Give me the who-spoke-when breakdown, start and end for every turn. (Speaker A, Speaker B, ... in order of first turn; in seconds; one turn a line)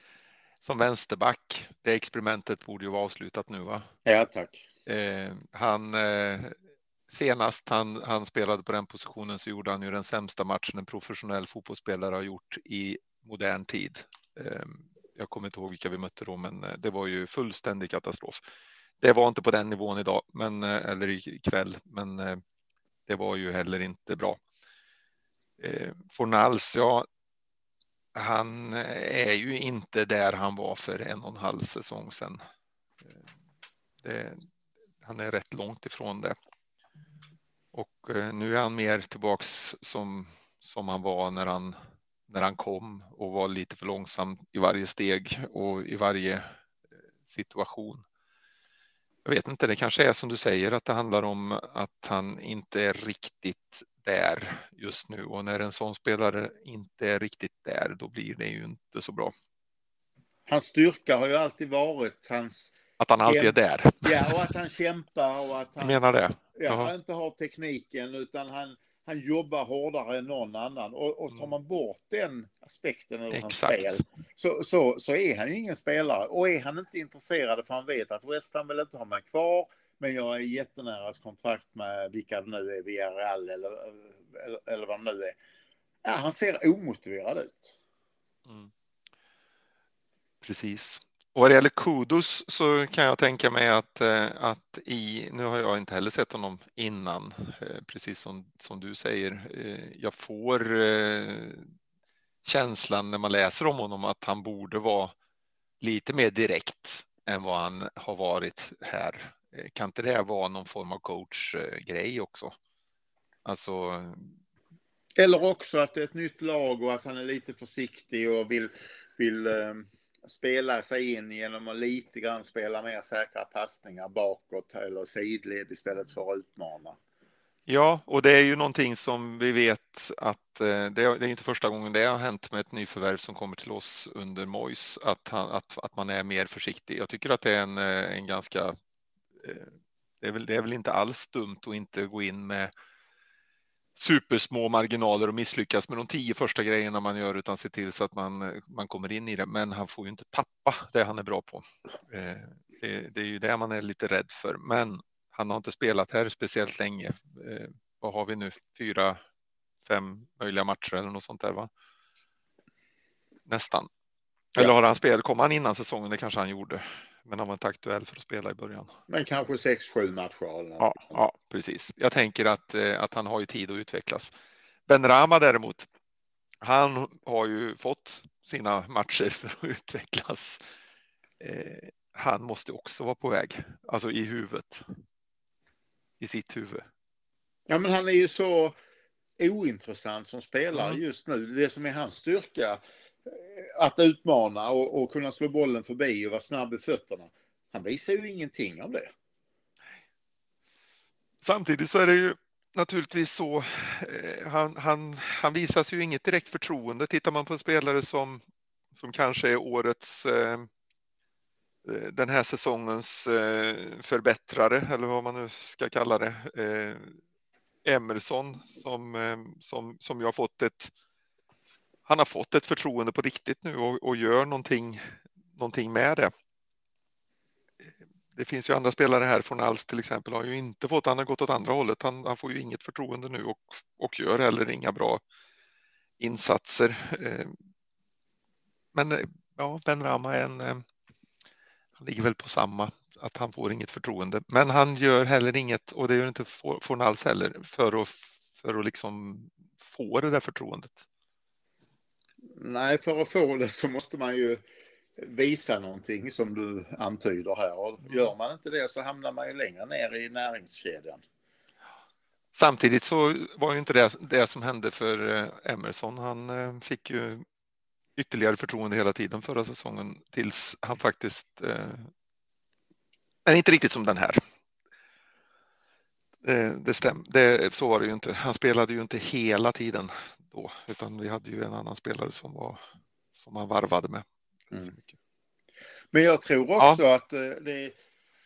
Speaker A: 0.6-3.9
Speaker B: 4.0-4.7
Speaker A: 4.9-6.5
Speaker A: 7.1-18.4
Speaker A: 19.0-22.4
Speaker A: 23.1-24.4
Speaker A: 25.6-27.1
Speaker A: 28.1-32.4
Speaker A: 34.0-34.4
Speaker A: 35.0-36.4
Speaker A: 37.7-41.8
Speaker A: 42.3-46.5
Speaker A: 47.3-48.0
Speaker A: 49.2-59.3
Speaker B: 60.5-66.0
Speaker A: 63.0-64.5
Speaker A: 65.8-66.9
Speaker B: 66.5-85.4
Speaker A: 73.3-74.0
Speaker B: 86.0-87.7
Speaker A: 90.4-101.7
Speaker A: 102.4-105.1
Speaker A: 105.8-112.5
Speaker A: 113.5-114.3
Speaker B: 115.2-127.0
Speaker A: 127.7-138.8
Speaker A: 139.4-142.7
Speaker A: 144.0-159.2
Speaker A: 159.8-161.7
Speaker A: 163.5-163.9
Speaker A: 164.6-168.9
Speaker B: 169.1-171.2
Speaker A: 170.8-174.3
Speaker A: 174.9-175.9
Speaker A: 176.6-180.6
Speaker A: 181.4-184.8
Speaker A: 186.2-186.9
Speaker B: 187.7-188.8
Speaker B: 189.4-199.1
Speaker A: 201.4-208.4
Speaker A: 208.9-210.7
Speaker A: 211.8-217.2
Speaker A: 217.8-220.9
Speaker A: 222.1-225.0
Speaker A: 225.5-226.3
Speaker A: 228.3-235.2
Speaker A: 236.2-237.5
Speaker A: 238.9-240.8
Speaker A: 242.0-251.0
Speaker B: 252.5-254.6
Speaker B: 255.2-261.2
Speaker A: 262.6-267.4
Speaker A: 268.2-272.1
Speaker A: 273.4-274.4
Speaker A: 276.4-282.8
Speaker A: 283.4-285.1
Speaker B: 286.1-287.9